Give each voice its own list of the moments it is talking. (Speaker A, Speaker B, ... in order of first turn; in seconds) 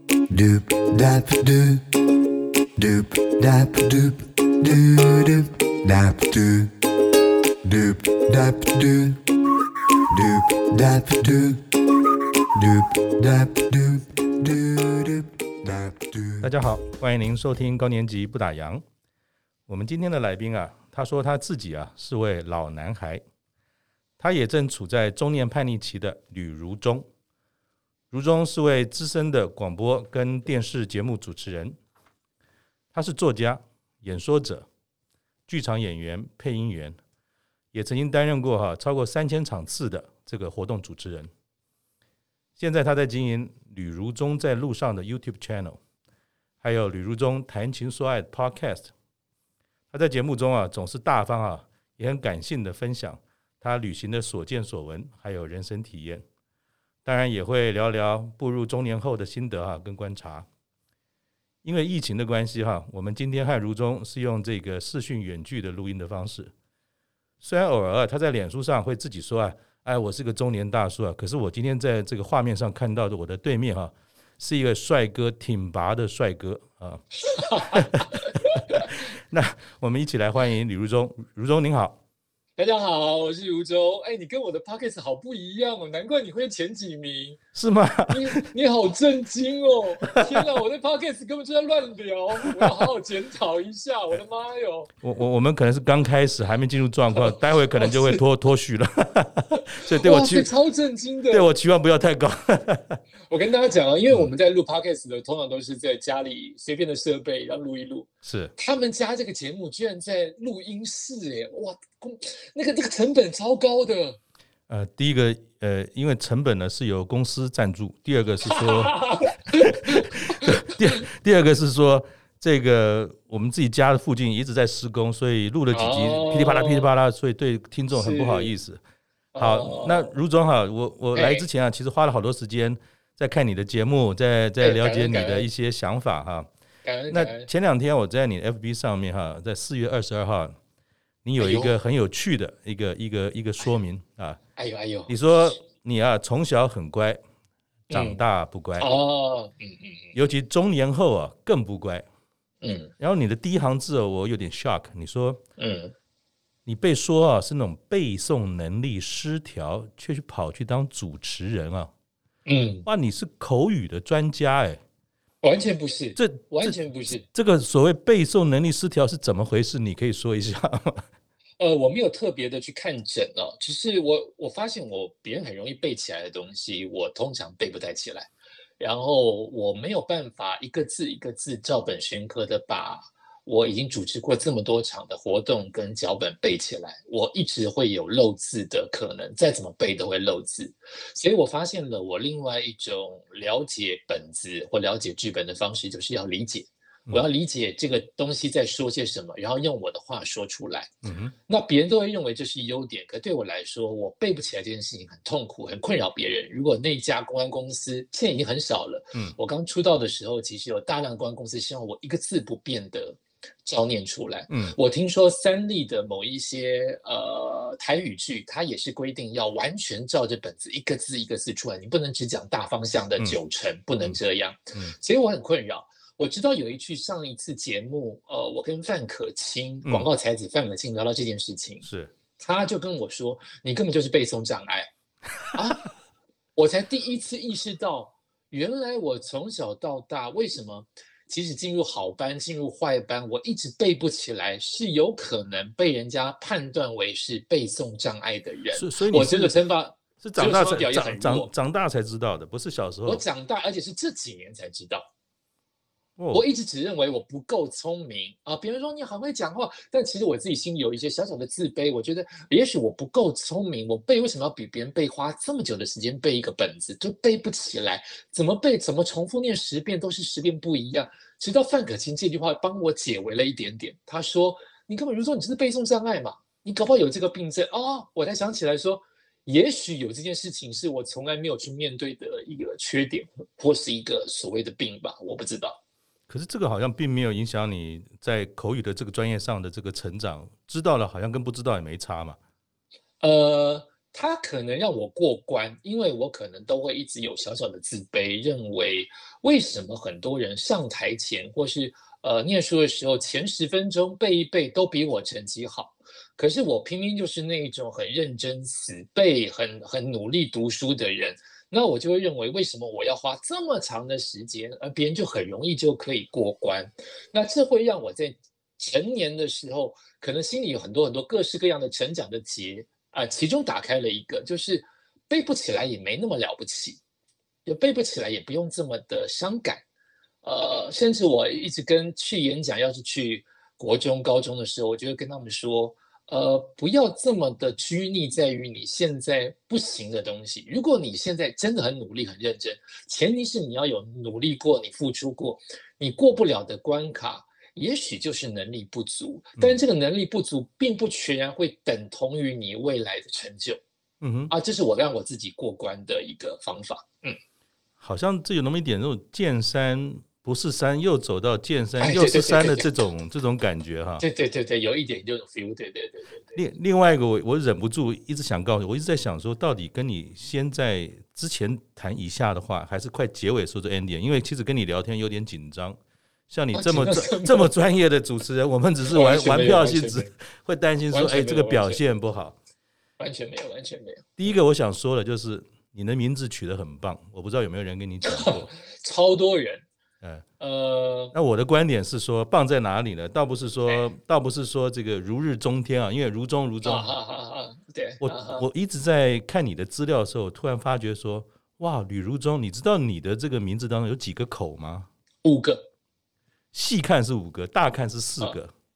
Speaker A: 0.3-2.0, 2.8-6.8, 7.6-9.2, 10.1-11.8, 12.5-16.5
Speaker B: 16.4-18.8, 19.7-23.2, 24.2-27.1, 28.1-31.7, 32.9-34.7, 35.5-37.0, 37.7-41.3, 42.6-45.8, 46.6-48.9, 49.9-56.2, 57.0-60.5, 61.6-66.5, 67.4-77.0, 77.6-82.0, 87.5-88.3, 90.0-90.4, 92.4-92.7, 95.0-100.5, 101.3-103.0, 108.2-108.5, 114.7-119.0, 119.5-128.8, 129.4-136.5, 137.1-140.6, 141.2-144.4, 145.1-147.2, 147.9-148.9, 150.1-152.1, 153.0-155.4, 156.7-161.9, 162.8-164.8, 166.2-171.0, 201.0-201.3, 214.5-214.7, 231.8-232.1, 248.7-249.6, 250.2-253.2, 256.2-256.4, 286.3-292.4, 354.2-354.5, 358.0-364.2, 366.5-376.0, 376.5-382.6, 384.4-388.7, 391.3-397.1, 398.2-405.1, 406.7-408.7
Speaker C: 77.2-78.9, 82.6-87.4, 88.1-94.9, 97.1-98.2, 99.8-101.5, 103.3-114.2, 118.5-120.6, 125.7-126.9, 127.9-128.5, 129.3-130.1, 131.1-131.5, 134.6-135.5, 136.8-137.5, 141.4-141.8, 144.6-145.1, 147.9-148.2, 148.8-150.1, 152.6-152.9, 155.6-155.9, 162.4-162.9, 165.4-167.2, 171.6-200.9, 201.5-231.8, 232.4-234.9, 235.5-235.9, 236.6-251.5, 253.1-255.0, 256.3-285.8, 293.2-327.0, 327.6-329.8, 330.4-353.8, 354.5-357.4, 362.0-362.9, 364.2-366.6, 376.7-377.7, 379.1-380.3, 381.1-382.0, 383.2-384.3, 388.2-389.8, 390.6-391.3, 396.8-398.6, 405.4-405.9